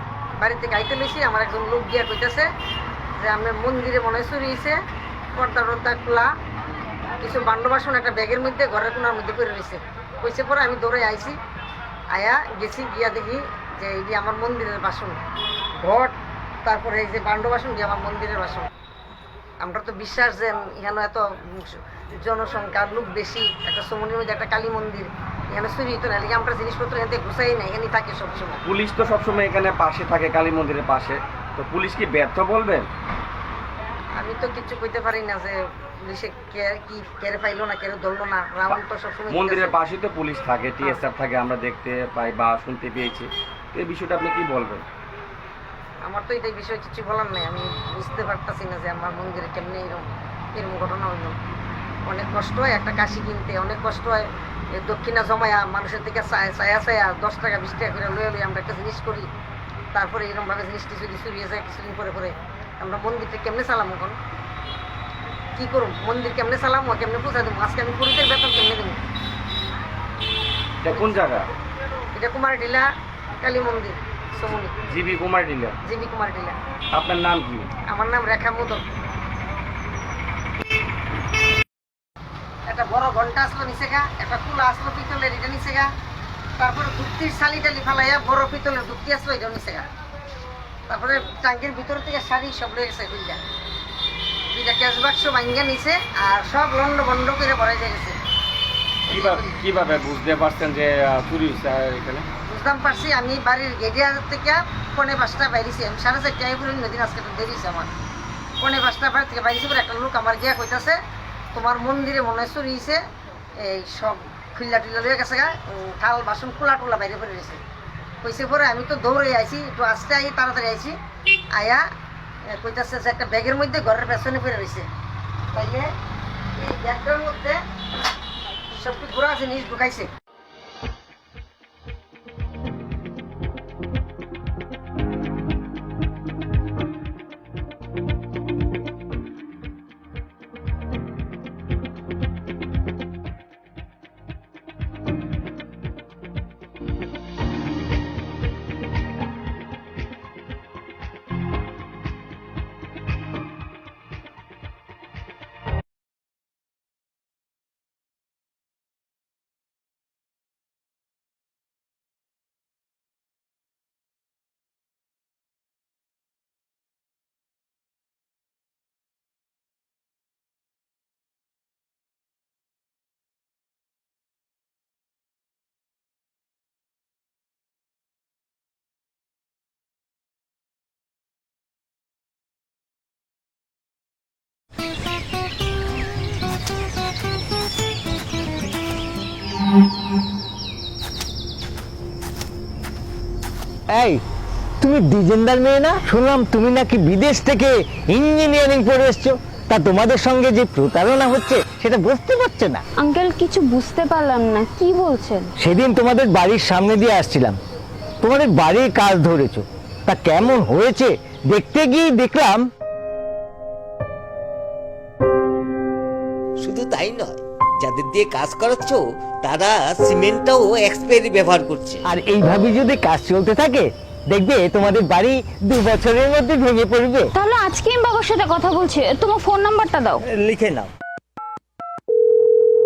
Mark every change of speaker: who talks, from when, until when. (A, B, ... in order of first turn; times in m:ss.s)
0:00.4-0:02.5 A
0:03.2-0:04.8 A
0:05.3-0:06.3 A
0:07.2-0:11.4 A
0:12.1-0:15.2 A
0:15.8-0:16.1 A
0:16.6-0:18.7 A
0:19.6-0:28.6 A
0:28.6-0:32.9 B
0:34.2-0:39.7 A
0:39.3-0:44.8 B
0:46.0-0:51.4 A
0:52.0-0:59.3 A
0:59.9-1:04.2 A
1:05.6-1:09.0 A
1:10.8-1:11.5 B
1:12.1-1:12.8 A
1:13.4-1:14.8 A
1:14.9-1:15.8 B
1:15.8-1:16.6 A
1:16.9-1:17.7 B
1:17.9-1:18.8 A
1:22.7-1:25.9 A
1:26.6-1:29.8 A
1:30.9-1:33.4 A
1:34.5-1:38.2 A
1:39.1-1:42.2 B
1:39.1-1:39.6 A
1:42.5-1:47.9 A
1:48.6-1:51.0 A
1:51.5-1:53.0 A
1:53.6-1:57.6 A
1:58.2-2:01.0 A
2:01.5-2:01.8 A
2:02.5-2:04.9 A
2:05.5-2:05.9 A
2:06.6-2:07.6 A
2:08.8-2:10.1 A
3:13.9-3:14.2 C
3:14.8-3:22.8 C
3:23.0-3:25.5 D
3:25.6-3:27.6 C
3:28.2-3:32.7 C
3:36.6-3:42.0 E
3:42.0-3:47.3 C
3:47.3-3:50.2 D
3:50.3-3:50.9 E